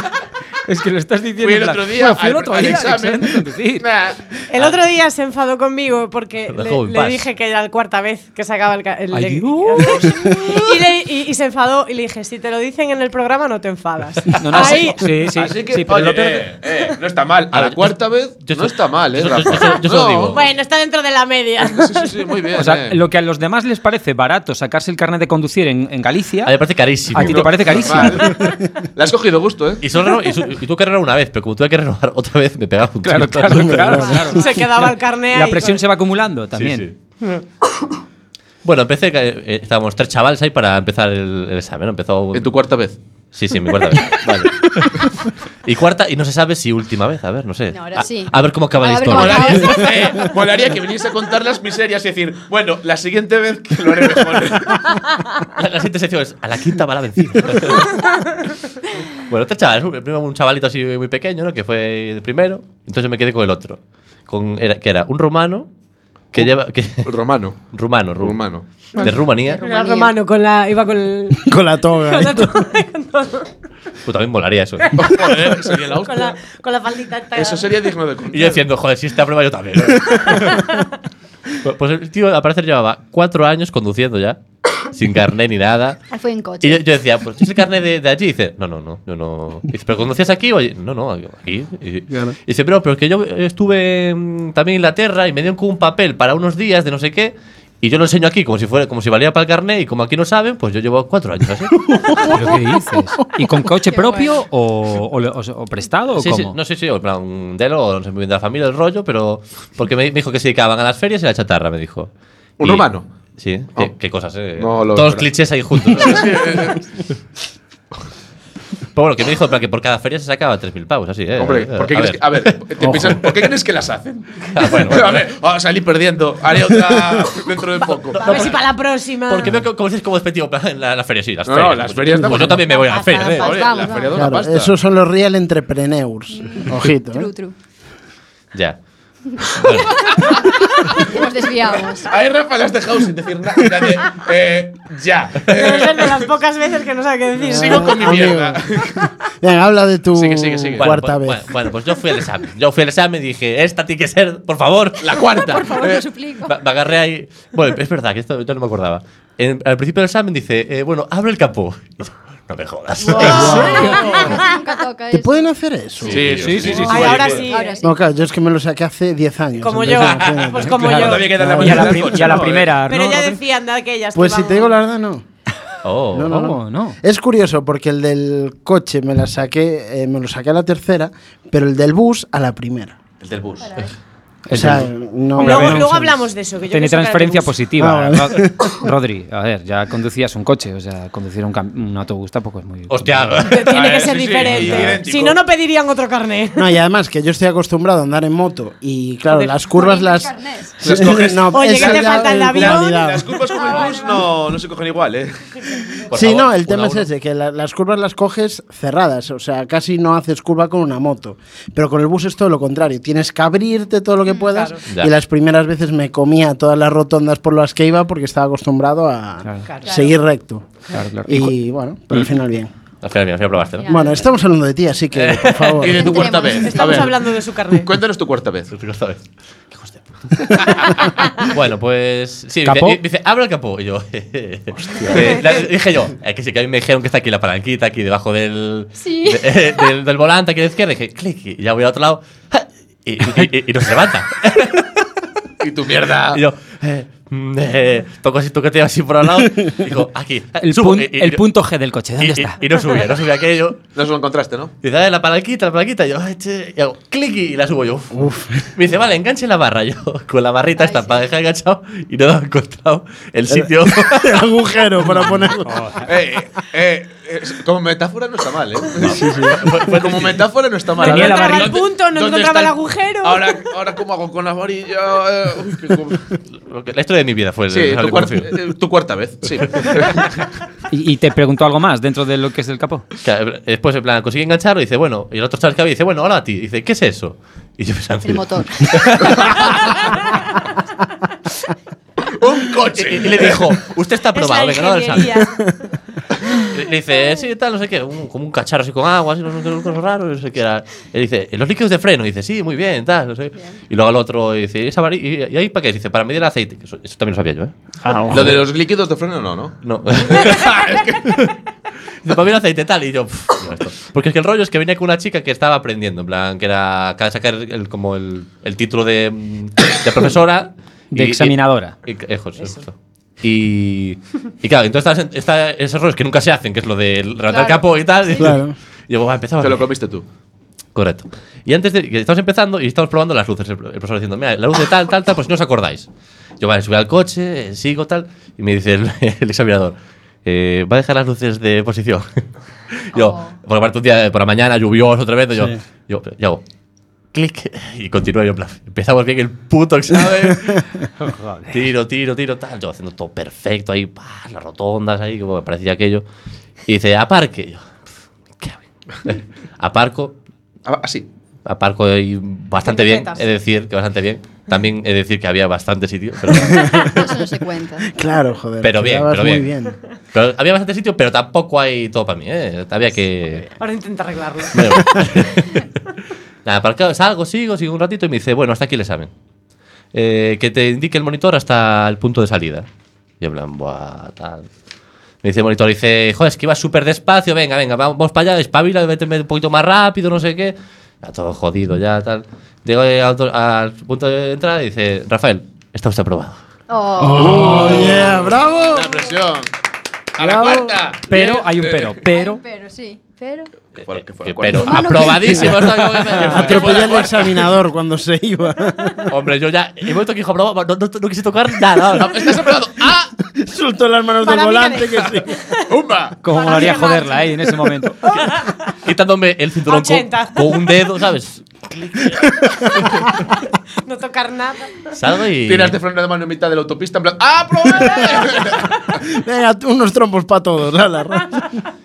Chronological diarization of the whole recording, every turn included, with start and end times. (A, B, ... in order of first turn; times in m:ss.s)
0:00.7-0:03.8 A
0:01.4-0:04.2 B
0:04.5-0:15.1 C
0:06.5-0:07.3 D
0:09.1-0:10.0 A
0:14.3-0:16.5 A
0:15.3-0:20.5 B
0:17.5-0:20.4 D
0:20.3-0:22.2 C
0:21.7-0:23.0 B
0:22.6-0:26.5 A
0:26.4-0:28.2 D
0:27.1-0:28.4 A
0:27.2-0:29.8 B
0:29.8-0:34.2 D
0:33.0-0:36.9 A
0:33.5-0:34.3 E
0:34.3-0:35.8 C
0:36.6-0:37.0 D
0:38.6-0:42.5 D
0:42.3-0:43.0 B
0:43.3-0:50.3 D
0:47.7-0:50.3 F
0:49.1-0:54.9 B
0:55.6-0:58.0 D
0:59.3-1:05.7 D
1:06.3-1:07.1 D
1:07.0-1:07.6 B
1:07.7-1:08.4 D
1:08.2-1:08.7 B
1:09.0-1:09.6 D
1:09.0-1:13.5 C
1:09.0-1:10.1 F
1:11.4-1:12.7 E
1:14.0-1:15.1 D
1:15.0-1:16.4 B
1:16.0-1:17.7 C
1:17.4-1:18.6 B
1:18.3-1:20.6 D
1:20.3-1:20.8 C
1:21.6-1:26.0 D
1:26.1-1:26.8 F
1:26.6-1:42.0 D
1:32.1-1:32.4 E
1:41.9-1:42.3 E
1:42.3-1:46.6 A
1:43.8-1:44.4 F
1:46.2-1:56.8 D
1:52.6-1:53.1 B
1:54.6-1:55.3 B
1:55.8-1:56.8 B
1:58.9-2:03.3 D
2:01.4-2:08.6 B
2:02.8-2:03.2 E
2:04.5-2:05.2 D
2:08.1-2:09.6 C
2:08.2-2:08.7 D
2:09.3-2:13.6 D
2:11.5-2:12.8 B
2:12.6-2:13.8 C
2:13.4-2:14.3 F
2:13.4-2:14.7 B
2:14.1-2:17.3 E
2:16.3-2:17.5 F
2:18.5-2:18.8 D
2:19.4-2:20.4 D
2:20.0-2:22.1 F
2:22.1-2:26.3 B
2:25.5-2:28.2 C
2:27.5-2:29.1 B
2:27.5-2:31.5 E
2:30.1-2:31.1 B
2:30.8-2:35.0 D
2:35.0-2:36.1 B
2:35.2-2:36.6 F
2:36.5-2:43.8 D
2:43.1-2:45.4 F
2:43.1-2:44.6 C
2:43.2-2:44.2 E
2:43.3-2:44.4 B
2:45.1-2:46.9 E
2:46.0-2:47.3 D
2:46.0-2:47.5 B
2:46.4-2:47.2 A
2:46.8-2:47.8 C
2:47.4-2:47.9 F
2:47.8-2:52.1 E
2:49.6-2:51.5 C
2:50.7-2:53.4 A
2:50.8-2:52.8 B
2:52.9-2:54.8 C
2:54.1-2:55.2 E
2:55.8-2:56.3 D
2:56.1-3:03.0 E
2:56.2-2:57.0 A
3:03.2-3:03.8 B
3:04.5-3:05.8 A
3:04.5-3:06.3 E
3:05.4-3:07.5 C
3:06.7-3:13.4 A
3:07.8-3:08.8 E
3:12.9-3:13.8 D
3:13.4-3:16.6 C
3:13.7-3:15.4 B
3:14.4-3:14.7 D
3:14.5-3:14.8 A
3:16.6-3:23.3 E
3:19.4-3:20.8 F
3:20.8-3:25.5 B
3:21.5-3:23.1 C
3:23.5-3:24.3 F
3:26.1-3:27.1 D
3:26.1-3:40.7 E
3:34.5-3:34.8 C
3:39.7-3:40.1 C
3:40.9-3:41.5 A
3:41.3-3:42.7 E
3:43.0-3:43.9 D
3:43.8-3:44.1 F
3:43.9-3:46.3 E
3:45.1-3:45.9 D
3:45.8-3:47.2 B
3:45.9-3:47.0 F
3:46.6-3:47.9 C
3:47.8-3:48.7 B
3:48.7-3:50.1 D
3:51.4-4:05.1 D
3:52.6-3:53.0 A
3:55.1-3:55.5 B
3:59.0-3:59.5 F
4:05.6-4:06.4 B
4:06.3-4:11.4 D
4:10.6-4:12.6 A
4:12.2-4:13.8 D
4:14.0-4:14.7 B
4:14.8-4:24.4 D
4:18.1-4:18.7 E
4:20.8-4:21.2 F
4:23.5-4:26.1 E
4:25.1-4:26.1 A
4:26.0-4:29.2 B
4:29.0-4:30.5 D
4:29.0-4:30.0 E
4:29.8-4:36.3 B
4:31.0-4:33.7 C
4:31.0-4:31.8 A
4:36.6-4:38.5 D
4:37.7-4:40.3 B
4:40.9-4:43.0 A
4:43.2-4:50.2 D
4:48.2-4:50.2 F
4:52.3-4:53.6 B
4:53.0-4:55.4 D
4:54.3-4:55.7 C
4:56.7-5:07.7 D
5:08.0-5:08.5 E
5:08.3-5:09.8 B
5:09.8-5:11.5 D
5:10.3-5:11.4 B
5:12.2-5:29.9 D
5:21.1-5:21.9 A
5:27.5-5:28.5 F
5:28.4-5:28.8 E
5:29.6-5:30.2 B
5:31.0-5:36.1 D
5:36.6-5:42.4 D
5:43.1-5:46.6 D
5:43.1-5:43.6 F
5:47.3-5:50.8 D
5:50.2-5:50.5 B
5:51.2-5:51.8 A
5:51.7-5:56.2 D
5:56.9-5:57.9 D
5:58.6-6:00.4 D
6:00.9-6:01.3 B
6:01.7-6:07.3 D
6:02.8-6:03.5 C
6:06.9-6:08.1 F
6:08.1-6:10.0 E
6:08.8-6:09.7 D
6:10.3-6:13.7 D
6:13.8-6:15.0 C
6:14.7-6:15.9 D
6:16.6-6:19.3 D
6:20.1-6:22.9 D
6:23.4-6:24.7 D
6:25.4-6:36.6 D
6:36.9-6:38.1 F
6:37.2-6:39.2 E
6:37.4-6:39.7 B
6:40.4-6:42.2 B
6:41.3-6:42.6 A
6:42.3-6:43.7 F
6:44.0-6:47.4 B
6:44.2-6:47.5 D
6:44.8-6:45.8 F
6:46.3-6:49.3 E
6:49.3-6:52.6 D
6:52.1-6:53.3 B
6:53.5-6:55.5 E
6:54.4-6:55.6 C
6:55.9-6:56.4 B
6:56.4-6:58.2 A
6:56.5-6:58.8 C
6:59.0-7:03.1 D
6:59.9-7:00.9 C
7:02.3-7:03.3 E
7:04.0-7:05.1 C
7:05.1-7:06.0 D
7:05.7-7:08.9 B
7:09.3-7:11.8 E